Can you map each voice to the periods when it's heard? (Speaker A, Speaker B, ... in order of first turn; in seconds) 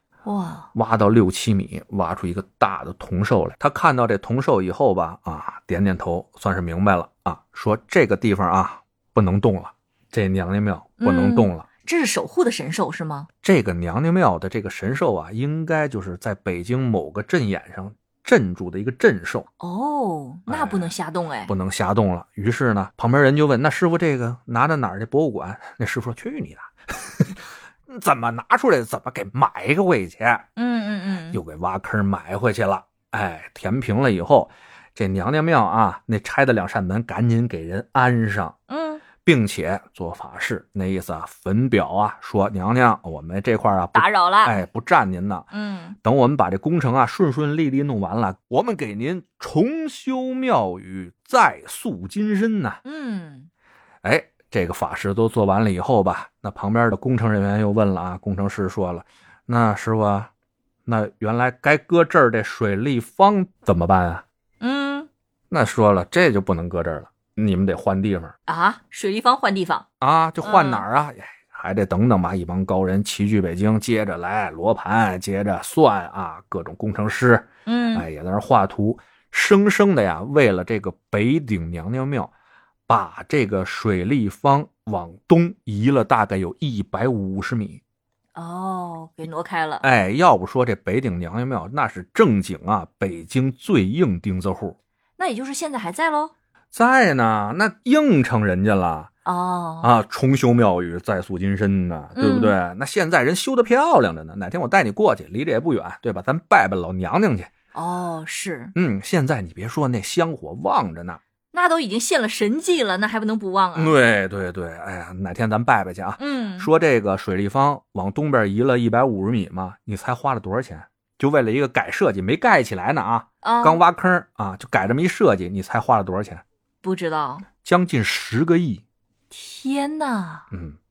Speaker A: 0.2-0.7, 11.0-13.3, 19.6-21.5, 30.6-31.4, 38.7-39.0, 43.9-44.6, 45.5-46.0, 52.8-53.5, 64.6-65.1, 68.5-69.8, 70.4-70.8, 77.7-78.0, 88.3-89.9, 95.2-96.3, 99.2-99.9, 102.2-102.5, 107.7-108.7, 111.5-114.0, 116.2-116.7, 123.4-123.8, 126.8-127.5, 129.3-130.5
Speaker B: 0.8-11.7, 13.4-19.5, 20.5-20.9, 21.5-30.5, 31.3-38.6, 39.2-45.5, 46.0-52.8, 54.0-60.3, 60.9-64.2, 65.5-68.3, 70.0-82.3, 82.9-87.8, 89.8-94.8, 96.7-99.1, 99.8-107.5, 108.8-111.2, 113.8-126.4, 127.6-128.8, 130.5-130.8